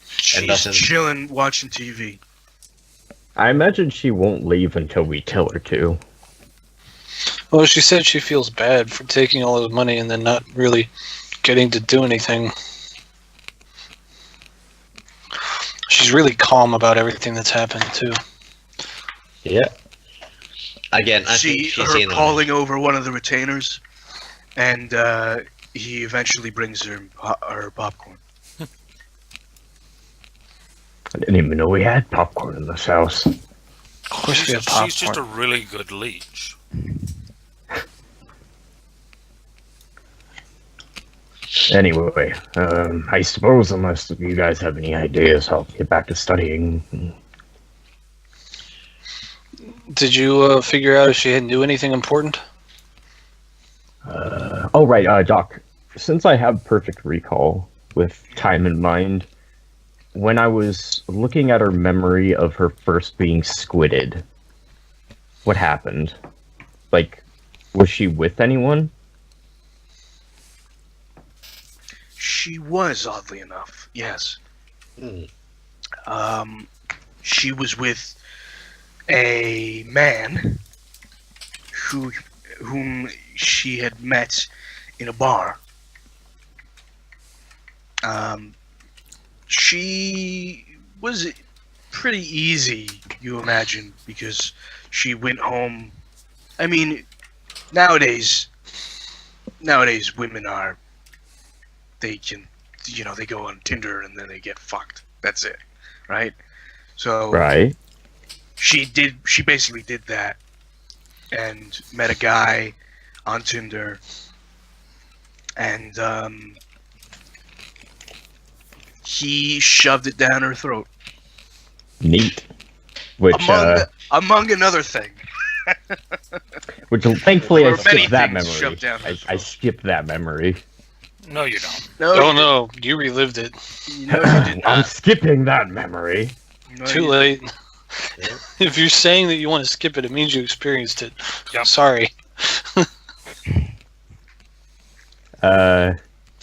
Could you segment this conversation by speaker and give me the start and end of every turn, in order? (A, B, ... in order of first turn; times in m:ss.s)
0:00.2-0:02.2 A
0:00.3-0:00.9 B
0:03.4-0:06.0 C
0:07.5-0:10.9 D
0:11.4-0:12.5 D
0:15.9-0:18.2 D
0:19.4-0:19.7 B
0:20.9-0:22.5 B
0:21.2-0:23.8 A
0:24.6-0:28.2 A
0:31.2-0:33.3 C
0:34.1-0:35.2 D
0:34.3-0:36.6 E
0:41.7-0:47.1 C
0:49.9-0:52.4 D
0:54.1-0:59.3 C
1:00.2-1:04.2 C
1:05.4-1:06.2 C
1:06.9-1:07.2 C
1:07.7-1:08.9 C
1:12.2-1:14.4 A
1:15.0-1:15.3 B
1:16.1-1:16.7 A
1:17.2-1:18.2 A
1:19.1-1:20.6 A
1:21.7-1:25.6 A
1:28.0-1:28.6 A
1:29.5-1:31.4 A
1:31.9-1:36.0 A
1:36.6-1:37.1 A
1:37.7-1:38.5 A
1:39.6-1:40.8 A
1:42.0-1:46.4 A
1:47.0-1:47.4 A
1:47.3-1:47.8 C
1:48.6-1:50.4 A
1:51.3-1:54.0 A
1:55.6-1:56.6 A
1:59.0-2:00.9 A
2:02.0-2:02.5 C
2:03.2-2:03.9 C
2:03.3-2:06.0 A
2:06.9-2:10.6 C
2:07.5-2:09.5 A
2:11.2-2:11.9 E
2:12.0-2:12.5 A
2:12.1-2:13.6 D
2:13.9-2:14.9 A
2:14.1-2:16.4 C
2:16.7-2:17.2 A
2:16.9-2:17.5 D
2:18.6-2:22.9 D
2:25.4-2:26.0 C